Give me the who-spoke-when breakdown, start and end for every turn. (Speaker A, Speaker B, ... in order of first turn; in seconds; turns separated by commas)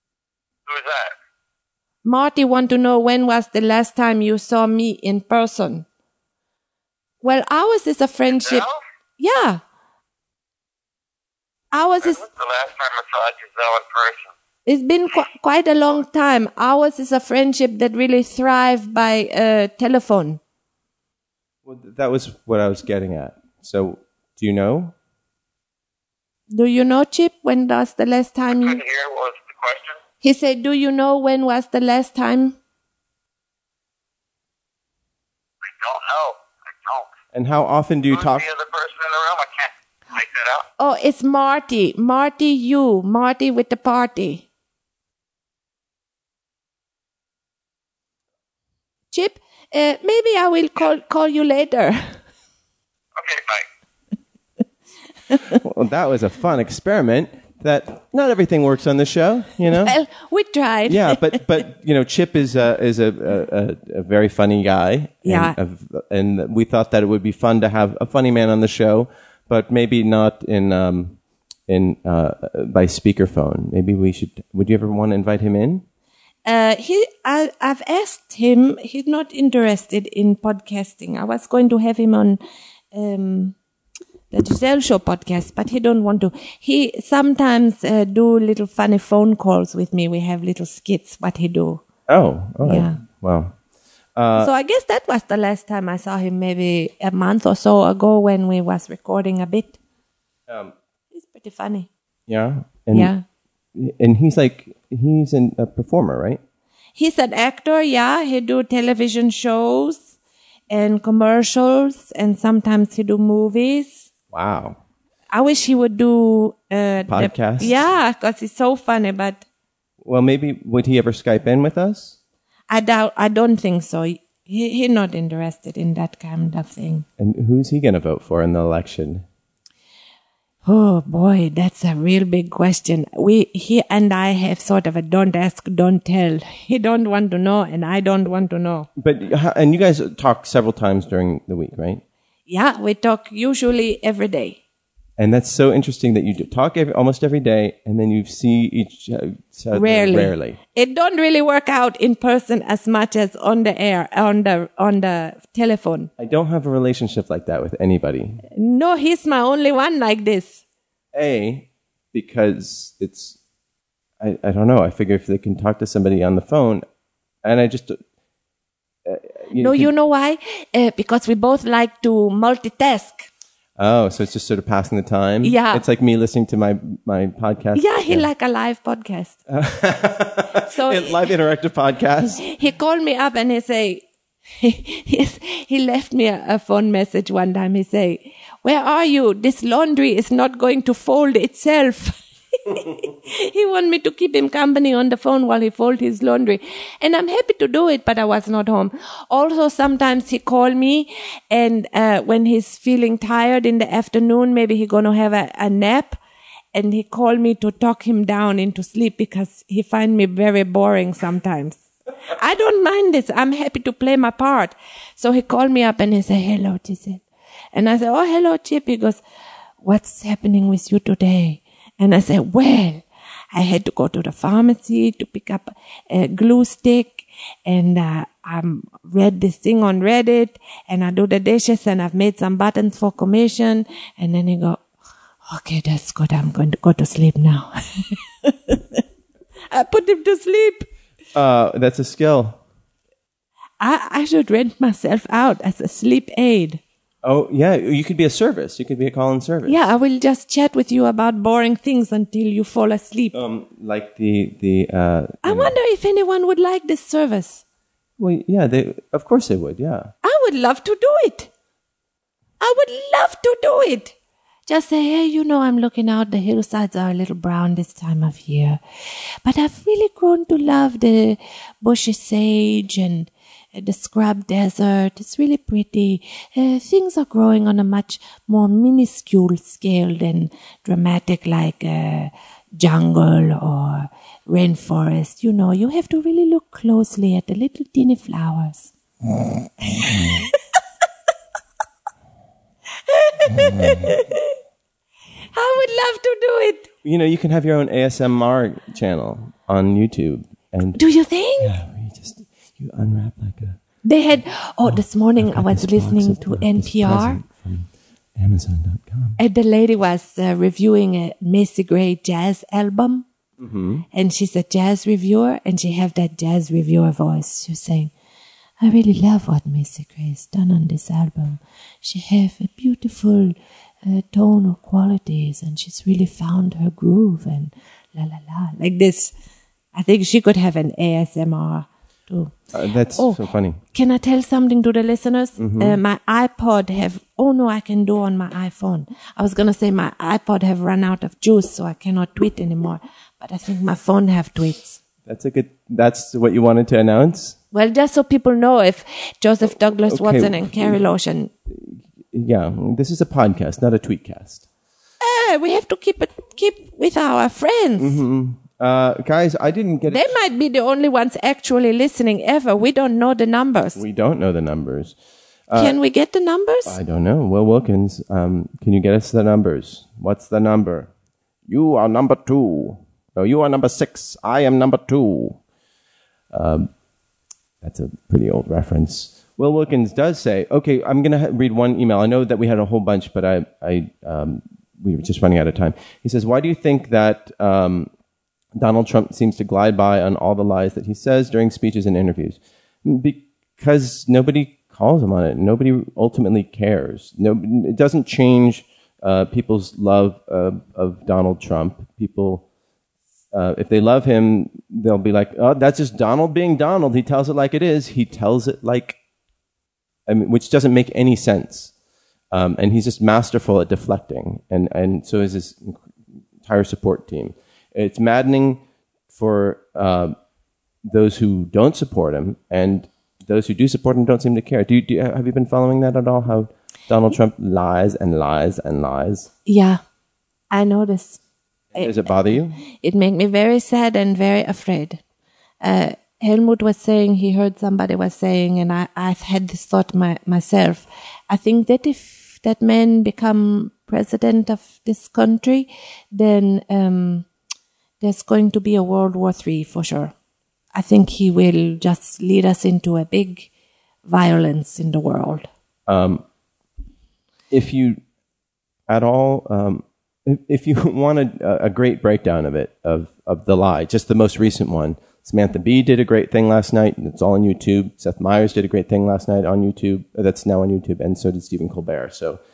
Speaker A: 0.7-1.1, Speaker B: 2.0-5.8, Speaker B: 7.2-8.7, Speaker A: 8.3-8.8, Speaker B: 9.2-9.6, Speaker B: 11.7-12.3, Speaker A: 12.0-14.3, Speaker B: 14.7-20.4, Speaker C: 21.6-24.9, Speaker B: 26.5-28.8, Speaker A: 28.5-30.0, Speaker B: 30.2-32.6, Speaker A: 35.6-37.1, Speaker C: 37.3-38.5, Speaker A: 38.1-40.6, Speaker B: 40.8-44.5, Speaker B: 49.1-52.2, Speaker A: 53.2-53.6, Speaker B: 55.3-55.6, Speaker C: 55.5-59.9, Speaker B: 59.7-61.4, Speaker C: 60.9-75.8, Speaker B: 65.2-65.5, Speaker B: 76.4-82.4, Speaker B: 82.9-83.5, Speaker B: 84.3-91.8, Speaker C: 92.1-93.5, Speaker B: 92.6-93.0, Speaker C: 94.2-94.5, Speaker B: 94.4-99.8, Speaker C: 100.5-100.7, Speaker B: 101.1-101.9, Speaker C: 102.3-103.1, Speaker B: 102.9-103.2, Speaker C: 103.7-106.4, Speaker B: 107.0-110.1, Speaker B: 110.7-114.1, Speaker C: 114.3-114.8, Speaker B: 115.3-119.4, Speaker C: 117.1-117.9, Speaker C: 120.0-122.2, Speaker B: 122.7-127.0, Speaker C: 127.2-129.2, Speaker B: 130.6-138.9, Speaker C: 139.0-142.0, Speaker B: 142.5-144.6, Speaker C: 145.2-150.6, Speaker B: 149.7-156.1, Speaker C: 156.2-158.4, Speaker B: 158.5-160.6, Speaker C: 161.1-163.4, Speaker C: 164.2-166.8, Speaker C: 167.4-168.0, Speaker C: 169.1-169.9, Speaker B: 169.5-173.3, Speaker C: 173.8-178.3, Speaker B: 175.4-175.8, Speaker B: 177.7-179.4, Speaker C: 179.5-182.4, Speaker B: 180.6-181.2, Speaker B: 182.2-184.1, Speaker B: 184.6-206.2, Speaker B: 206.7-211.8, Speaker B: 212.3-219.2, Speaker B: 219.8-234.8, Speaker B: 235.4-239.0, Speaker B: 239.7-240.9, Speaker C: 241.3-242.6, Speaker B: 243.8-246.8, Speaker C: 247.2-249.9, Speaker B: 249.7-253.3, Speaker C: 253.3-255.7, Speaker B: 255.4-257.6, Speaker C: 258.2-260.1, Speaker B: 260.2-261.5, Speaker B: 262.6-264.1, Speaker B: 264.7-268.8, Speaker B: 269.4-288.9, Speaker B: 289.8-290.6, Speaker B: 293.1-294.6, Speaker B: 295.5-296.9, Speaker C: 297.0-301.0, Speaker B: 300.9-301.8, Speaker C: 301.6-303.8, Speaker B: 304.0-307.4, Speaker C: 304.9-309.4, Speaker B: 309.4-313.2, Speaker C: 313.6-314.0, Speaker B: 314.1-318.1, Speaker B: 318.8-329.3, Speaker B: 329.9-332.6, Speaker C: 332.7-333.8, Speaker B: 333.1-333.4, Speaker B: 333.9-345.0, Speaker C: 335.6-336.0, Speaker C: 345.2-347.6, Speaker B: 347.7-351.5, Speaker C: 349.8-351.0, Speaker C: 351.7-354.6, Speaker B: 355.2-358.2, Speaker C: 358.0-360.3, Speaker B: 360.1-364.0, Speaker C: 363.9-365.1, Speaker C: 365.7-365.9, Speaker B: 365.7-367.0, Speaker C: 366.8-371.1, Speaker C: 371.7-375.6, Speaker C: 376.5-376.9, Speaker C: 377.8-388.1, Speaker C: 388.7-402.6, Speaker C: 403.5-409.2, Speaker C: 410.3-411.9, Speaker C: 412.5-416.0, Speaker C: 416.6-420.4, Speaker C: 421.0-429.5, Speaker B: 429.6-430.0, Speaker B: 430.7-431.4, Speaker C: 431.9-432.8, Speaker B: 432.8-435.2, Speaker B: 435.8-447.4, Speaker B: 448.2-450.3, Speaker B: 450.9-453.7, Speaker B: 454.2-455.7, Speaker C: 456.1-456.4, Speaker C: 457.7-458.2, Speaker C: 459.1-472.6